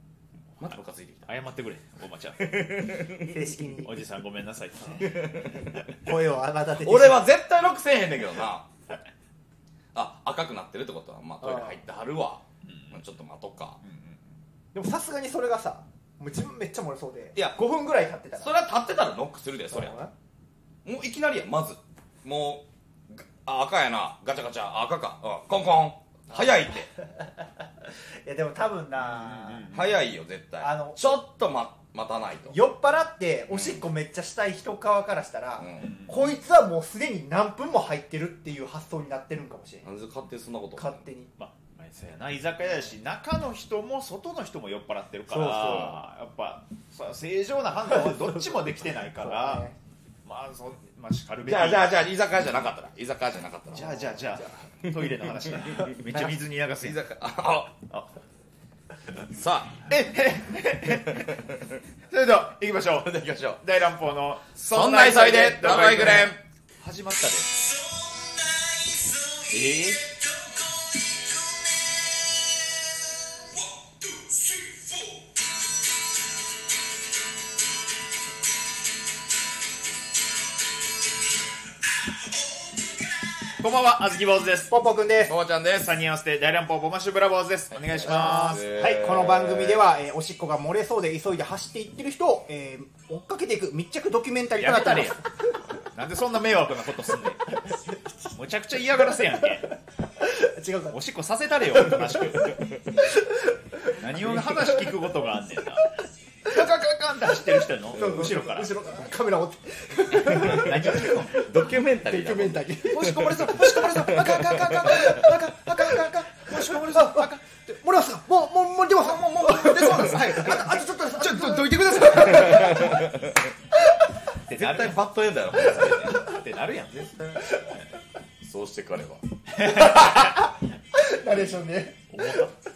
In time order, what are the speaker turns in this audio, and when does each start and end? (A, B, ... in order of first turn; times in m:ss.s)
0:00.6-0:01.3 A
0:01.2-0:02.7 B
0:02.4-0:03.4 A
0:03.2-0:04.0 C
0:03.8-0:05.4 B
0:05.0-0:05.8 A
0:05.6-0:07.3 C
0:06.8-0:08.7 A
0:09.9-0:13.8 A
0:11.4-0:11.8 C
0:12.6-0:13.0 B
0:13.8-0:14.2 B
0:14.7-0:18.6 C
0:18.4-0:20.0 A
0:19.7-0:20.1 C
0:20.8-0:26.9 A
0:26.3-0:29.7 C
0:29.0-0:29.9 B
0:29.7-0:32.6 A
0:30.6-0:31.2 C
0:32.5-0:39.9 C
0:33.5-0:33.8 A
0:35.6-0:36.0 A
0:35.8-0:36.1 B
0:39.8-0:41.1 A
0:40.8-0:41.3 C
0:41.4-0:49.7 B
0:45.3-0:45.9 C
0:45.5-0:45.9 A
0:49.2-0:49.8 C
0:50.2-0:52.0 B
0:51.4-0:57.8 A
0:53.7-0:57.0 B
0:59.3-0:59.8 A
0:59.9-1:01.4 B
1:01.1-1:01.5 A
1:02.1-1:07.6 B
1:02.9-1:03.6 A
1:04.7-1:06.4 A
1:09.4-1:10.1 B
1:23.6-1:24.7 B
1:24.7-1:25.3 C
1:25.2-1:25.9 A
1:25.7-1:28.7 B
1:27.9-1:29.8 A
1:28.0-1:35.3 C
1:34.6-1:35.2 B
1:35.9-1:37.6 B
1:37.7-1:38.3 C
1:38.3-1:39.7 B
1:40.2-1:41.0 C
1:40.9-1:42.5 B
1:42.4-1:42.8 A
1:43.8-1:44.8 C
1:44.0-1:45.9 B
1:46.4-1:48.7 B
1:47.9-1:53.7 C
1:50.2-1:51.4 B
1:50.3-1:55.2 A
1:52.8-1:57.5 B
1:54.7-2:03.1 C
1:59.0-2:03.0 B
2:02.3-2:03.4 A
2:04.4-2:05.0 B
2:04.5-2:06.2 A
2:05.5-2:07.1 B
2:06.9-2:07.5 A
2:08.4-2:09.2 A
2:09.5-2:10.3 B
2:09.6-2:12.4 C
2:12.1-2:12.5 B